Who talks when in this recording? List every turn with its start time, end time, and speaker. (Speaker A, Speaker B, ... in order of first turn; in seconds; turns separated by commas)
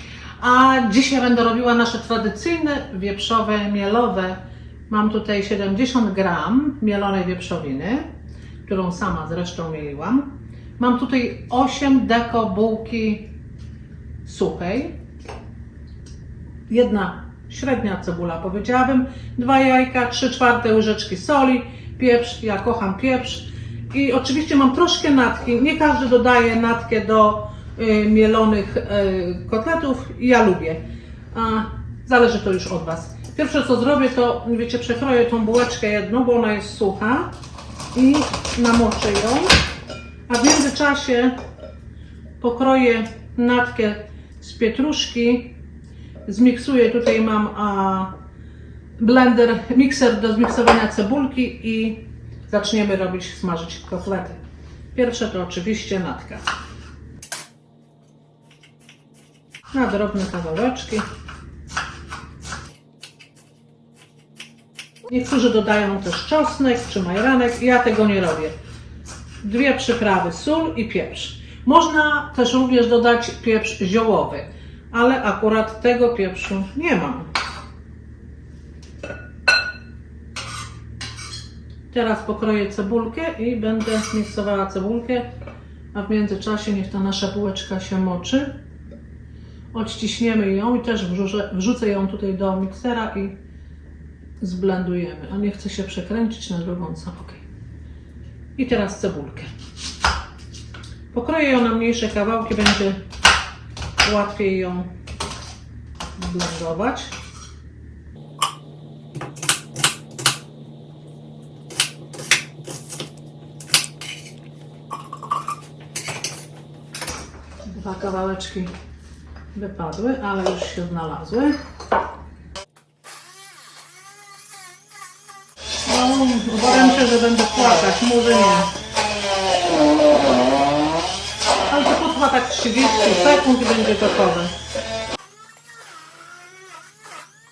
Speaker A: 0.4-4.4, Speaker A: 4.9-8.1, Speaker A: 8.6-13.3, Speaker A: 14.2-14.9, Speaker A: 16.7-37.3, Speaker A: 37.9-39.5, Speaker A: 40.3-41.4, Speaker A: 42.4-45.5, Speaker A: 46.2-48.1, Speaker A: 49.0-54.4, Speaker A: 54.9-56.4, Speaker A: 59.7-61.0, Speaker A: 65.0-68.5, Speaker A: 69.4-77.3, Speaker A: 81.9-85.3, Speaker A: 85.9-88.5, Speaker A: 89.7-93.4, Speaker A: 94.4-97.4, Speaker A: 98.6-99.5, Speaker A: 101.1-103.0, Speaker A: 104.0-104.9, Speaker A: 106.2-107.1, Speaker A: 117.7-118.7, Speaker A: 119.5-121.5, Speaker A: 125.8-128.7, Speaker A: 131.7-134.5